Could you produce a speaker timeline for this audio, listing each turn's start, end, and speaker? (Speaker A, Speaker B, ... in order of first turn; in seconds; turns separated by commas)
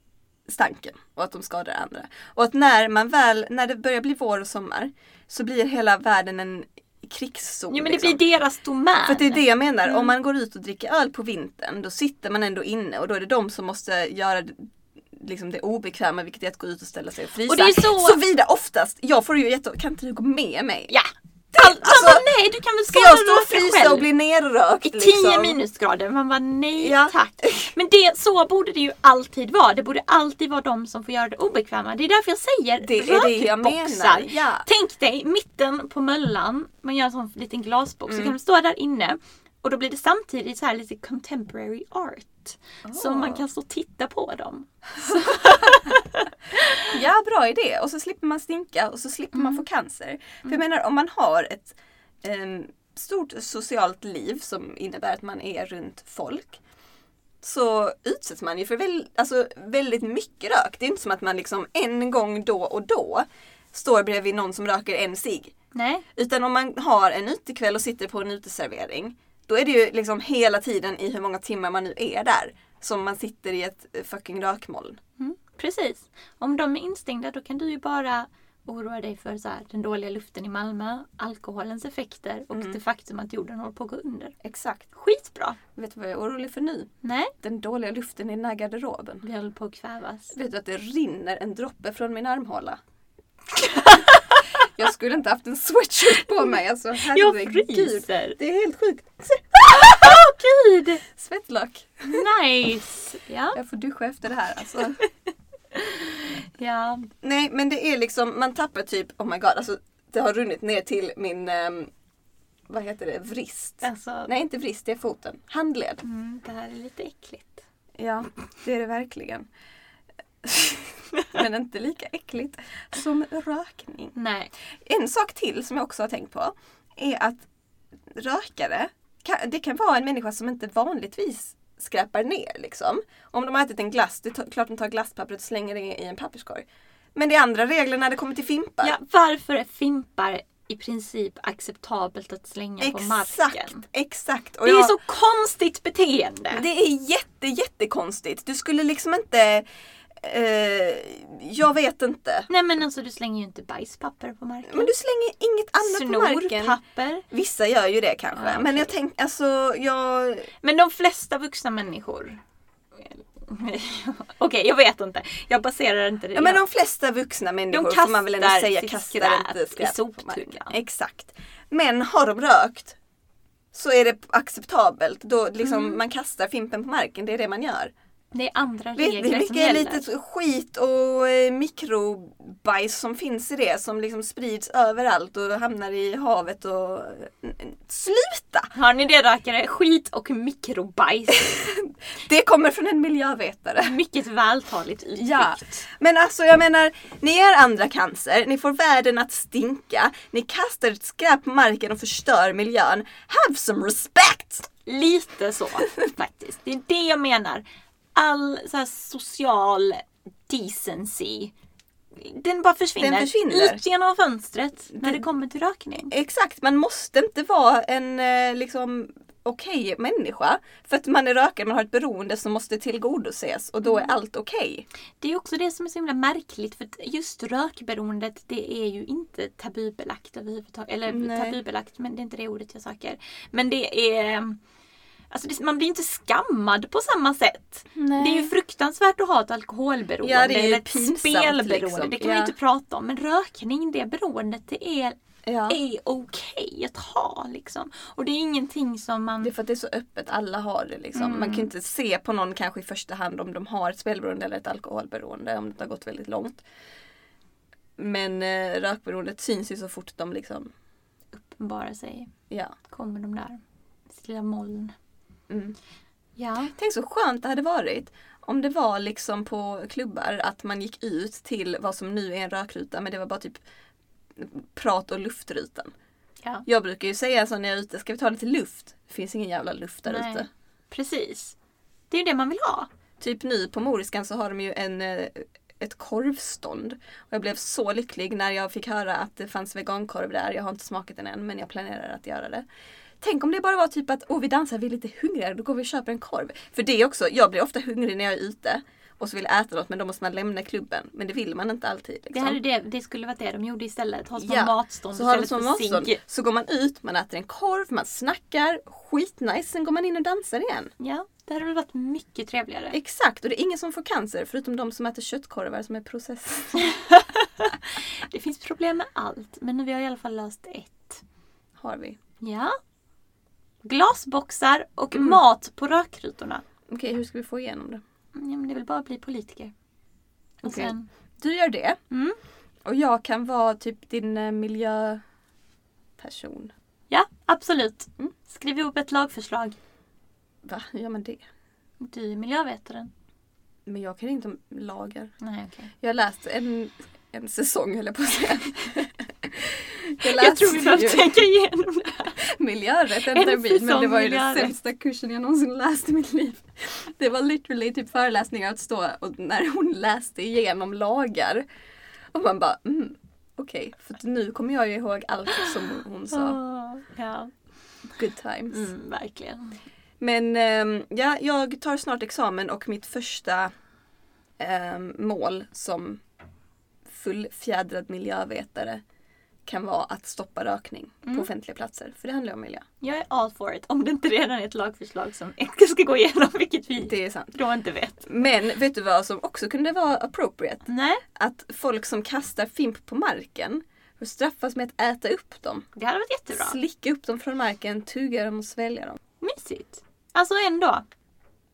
Speaker A: 0.5-8.2, Speaker B: 7.7-10.1, Speaker A: 9.1-20.9, Speaker B: 17.5-18.2, Speaker B: 20.9-24.1, Speaker A: 21.5-22.3, Speaker A: 22.9-25.6, Speaker B: 24.8-47.0, Speaker A: 26.8-27.7, Speaker A: 32.8-34.7, Speaker A: 38.1-38.4, Speaker A: 42.8-43.4, Speaker A: 45.0-46.0, Speaker A: 46.8-56.6, Speaker B: 49.3-49.6, Speaker A: 57.4-65.5, Speaker B: 65.7-66.0, Speaker A: 66.2-75.0, Speaker B: 75.2-84.3, Speaker A: 82.5-82.8, Speaker A: 84.4-84.9, Speaker B: 85.0-85.6, Speaker A: 85.8-89.2, Speaker B: 87.0-87.3, Speaker B: 89.2-90.3, Speaker A: 90.3-92.8, Speaker B: 93.5-94.4, Speaker A: 94.5-100.2, Speaker B: 97.0-98.4, Speaker B: 99.6-101.0, Speaker A: 101.0-102.2, Speaker B: 102.1-103.6, Speaker A: 103.5-105.0, Speaker B: 105.7-107.1, Speaker A: 107.2-111.9, Speaker A: 112.7-116.0, Speaker B: 113.8-114.3, Speaker B: 116.0-117.7, Speaker A: 118.0-119.5, Speaker A: 120.4-124.2, Speaker B: 124.2-124.5, Speaker A: 124.9-127.5, Speaker A: 128.1-139.0, Speaker B: 138.8-143.8, Speaker A: 142.8-145.0, Speaker B: 144.6-146.6, Speaker A: 146.5-149.7, Speaker A: 150.2-152.5, Speaker B: 152.5-154.9, Speaker A: 154.7-156.8, Speaker B: 155.8-157.3, Speaker A: 157.3-160.5, Speaker B: 158.3-158.9, Speaker B: 160.6-162.4, Speaker B: 162.9-166.6, Speaker A: 166.3-173.0, Speaker B: 167.7-170.7, Speaker A: 173.7-177.9, Speaker B: 175.6-176.0, Speaker B: 178.3-180.1, Speaker A: 179.0-188.7, Speaker B: 188.7-191.6, Speaker A: 191.3-193.9, Speaker B: 193.8-195.9, Speaker A: 195.1-204.7, Speaker B: 204.8-207.6, Speaker B: 208.2-211.5, Speaker B: 212.2-216.1, Speaker A: 213.0-213.8, Speaker A: 214.9-215.2, Speaker A: 216.1-224.8, Speaker B: 223.8-224.1, Speaker B: 225.2-234.6, Speaker A: 231.1-231.6, Speaker B: 235.3-245.2, Speaker A: 237.9-238.5, Speaker A: 240.2-242.5, Speaker A: 245.5-245.8, Speaker B: 245.7-249.5, Speaker A: 249.4-256.6, Speaker B: 251.2-251.7, Speaker A: 258.0-260.7, Speaker B: 261.3-262.3, Speaker A: 262.5-262.8, Speaker B: 262.9-264.9, Speaker A: 265.5-265.8, Speaker B: 266.4-266.7, Speaker A: 266.7-273.6, Speaker A: 274.4-275.9, Speaker A: 276.7-280.5, Speaker B: 280.1-281.6, Speaker B: 282.1-282.9, Speaker A: 283.2-292.6, Speaker A: 293.2-302.6, Speaker B: 302.3-306.2, Speaker A: 304.4-310.9, Speaker B: 311.0-313.0, Speaker A: 312.9-316.9, Speaker B: 316.8-321.2, Speaker A: 321.8-322.2, Speaker B: 322.4-322.8, Speaker B: 323.8-326.6, Speaker A: 325.1-325.4, Speaker A: 326.9-328.0, Speaker B: 328.3-329.7, Speaker B: 330.6-331.1, Speaker A: 330.6-332.0, Speaker B: 332.1-332.4, Speaker A: 332.9-335.2, Speaker A: 336.2-336.7, Speaker B: 337.1-339.8, Speaker A: 340.6-341.4, Speaker B: 342.0-343.1, Speaker A: 343.9-345.3, Speaker B: 345.4-345.9, Speaker A: 346.0-351.4, Speaker B: 350.2-352.4, Speaker A: 352.4-361.6, Speaker B: 353.2-354.8, Speaker A: 362.3-366.6, Speaker B: 366.3-367.5, Speaker A: 368.2-368.9, Speaker B: 368.7-369.8, Speaker A: 370.2-373.7, Speaker A: 374.6-376.2, Speaker A: 377.1-379.0, Speaker A: 379.7-382.9, Speaker B: 383.0-388.3, Speaker A: 387.1-387.6, Speaker A: 388.3-395.9, Speaker B: 390.9-391.2, Speaker B: 395.9-396.8, Speaker A: 396.5-399.2, Speaker B: 399.4-401.0